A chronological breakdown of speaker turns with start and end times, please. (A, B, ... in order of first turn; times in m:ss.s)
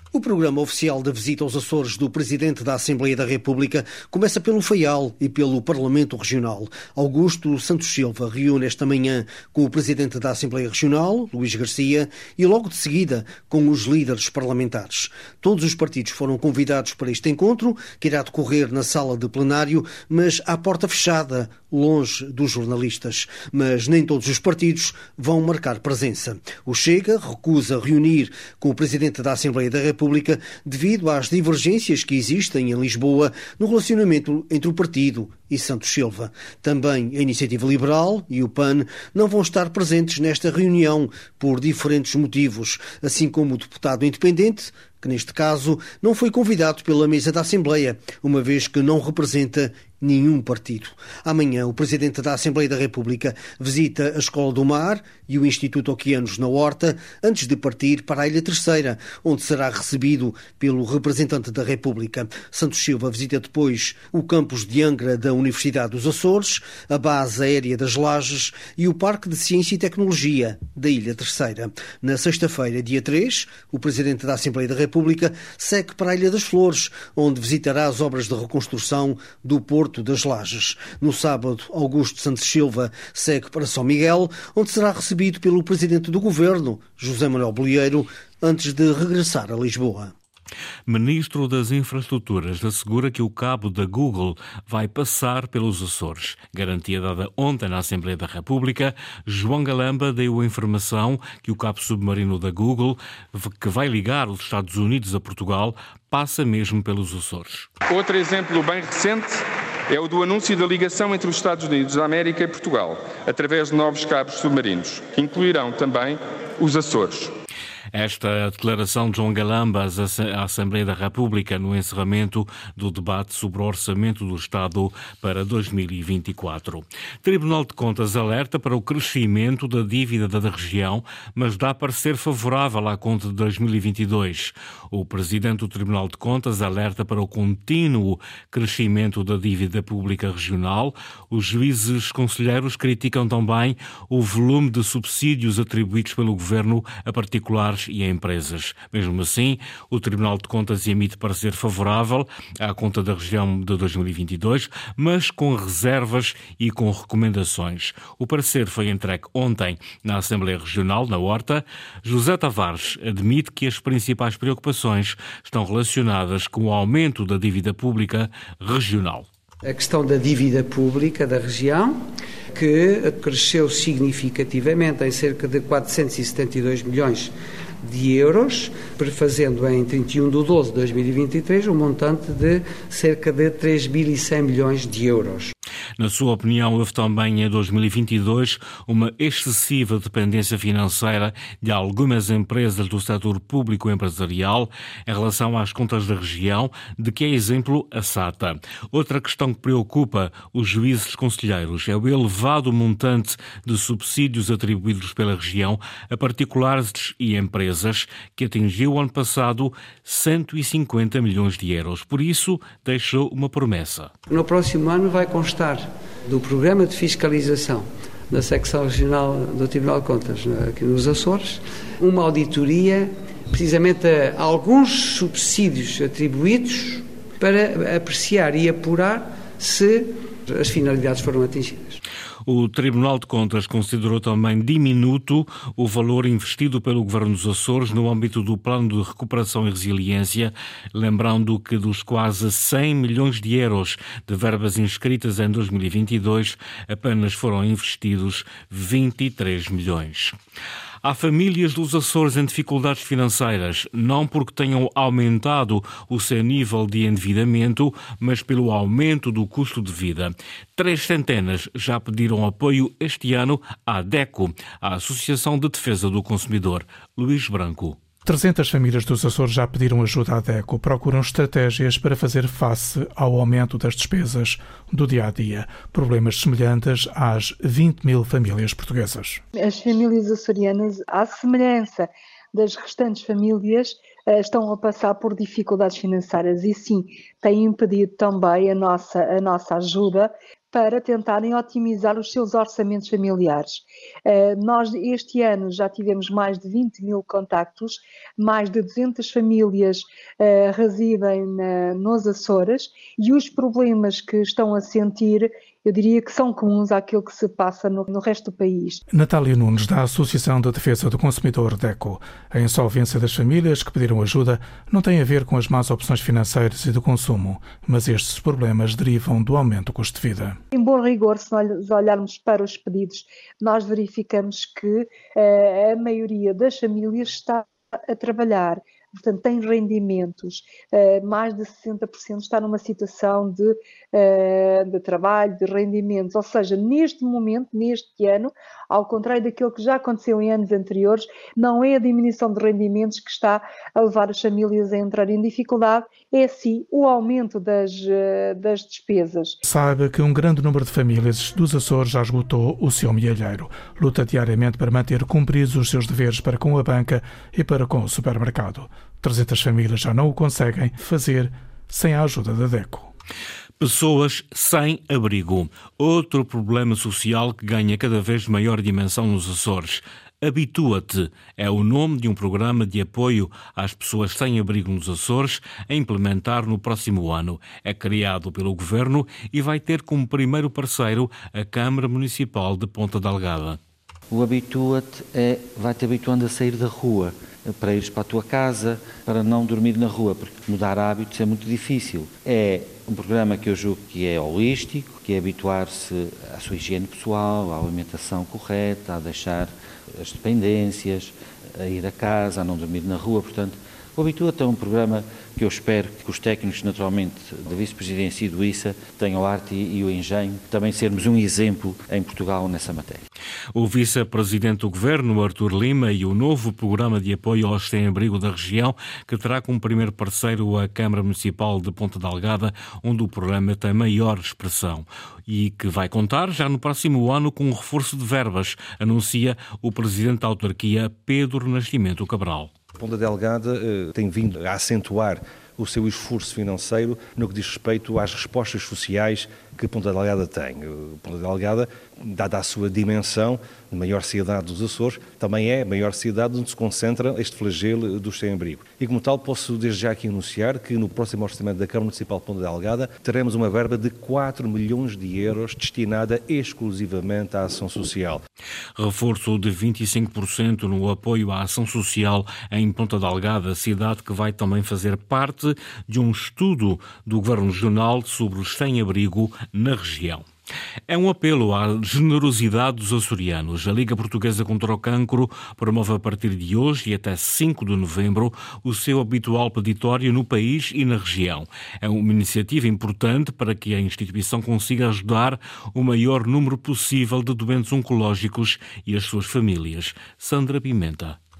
0:00.1-1:30.1 A
1:30.9-1:47.7 B
1:47.9-1:57.3 C
1:57.9-2:49.3 B
2:49.6-2:52.0 D
2:52.5-2:57.3 D
2:57.8-3:05.5 D
3:06.0-3:34.1 B
3:34.3-3:52.0 D
3:52.5-4:10.4 B
4:11.0-4:28.0 B
4:28.2-4:39.4 E
4:39.6-5:09.0 F
5:09.1-5:20.6 E
5:20.7-5:49.6 F
5:49.6-6:03.1 E
6:03.8-6:23.8 B
6:24.3-6:53.2 G
6:53.7-7:12.7 B
7:13.0-7:38.4 H
7:39.0-7:50.5 B
7:51.1-8:11.4 B